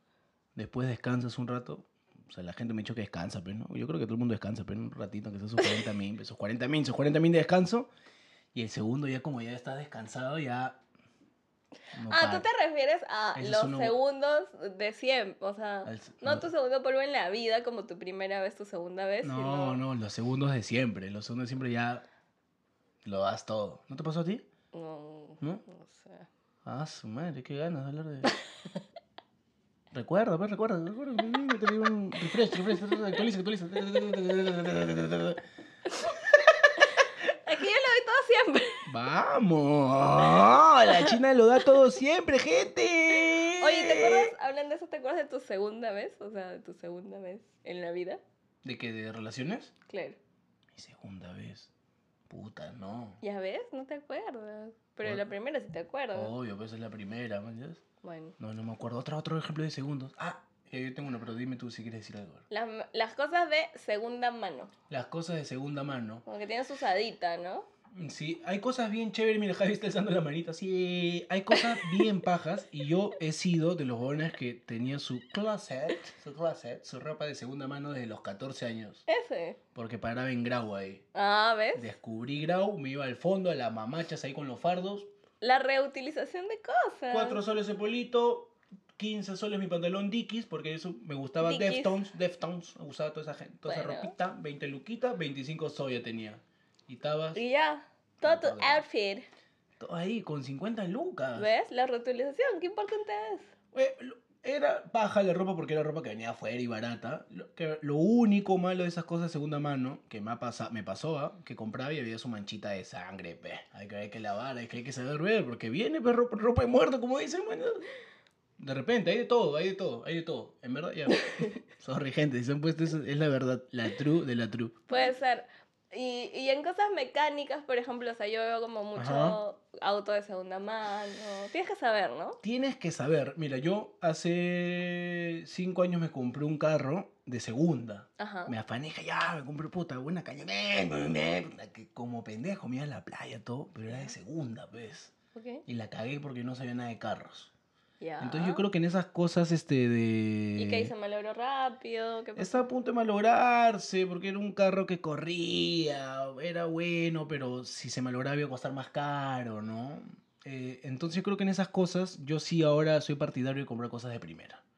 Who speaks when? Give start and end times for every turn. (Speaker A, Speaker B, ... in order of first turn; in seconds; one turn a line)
Speaker A: 0.6-7.9
Speaker A: 8.5-10.8
Speaker A: 11.9-12.5
Speaker B: 12.1-19.8
Speaker A: 13.3-14.0
Speaker A: 15.8-16.5
Speaker A: 19.2-22.0
Speaker A: 23.0-24.4
Speaker B: 24.7-26.3
Speaker A: 26.6-28.3
Speaker A: 29.9-35.4
Speaker B: 35.9-38.8
Speaker A: 38.9-44.3
Speaker B: 40.4-41.8
Speaker B: 43.1-48.2
Speaker A: 48.6-49.7
Speaker B: 49.9-50.2
Speaker A: 50.7-51.7
Speaker A: 52.3-53.2
Speaker B: 53.2-56.3
Speaker A: 55.0-55.3
Speaker A: 56.1-57.8
Speaker B: 58.0-58.4
Speaker A: 58.4-62.5
Speaker B: 62.5-64.7
Speaker A: 64.9-66.2
Speaker B: 66.2-67.7
Speaker A: 67.9-79.0
Speaker B: 71.5-72.1
Speaker B: 79.1-79.6
Speaker A: 79.7-81.0
Speaker B: 81.1-81.9
Speaker A: 81.7-85.1
Speaker B: 85.4-87.4
Speaker A: 87.1-97.4
Speaker B: 91.4-92.0
Speaker B: 93.7-94.1
Speaker B: 97.3-99.3
Speaker A: 98.2-98.8
Speaker A: 99.8-101.5
Speaker B: 101.3-103.5
Speaker A: 103.7-117.9
Speaker A: 118.6-124.9
Speaker B: 124.9-132.4
Speaker A: 128.9-129.4
Speaker A: 132.4-145.1
Speaker B: 138.2-138.5
Speaker B: 145.3-145.6
Speaker A: 145.7-147.5
Speaker B: 148.0-148.6
Speaker A: 148.2-150.9
Speaker B: 150.6-152.7
Speaker A: 152.3-164.6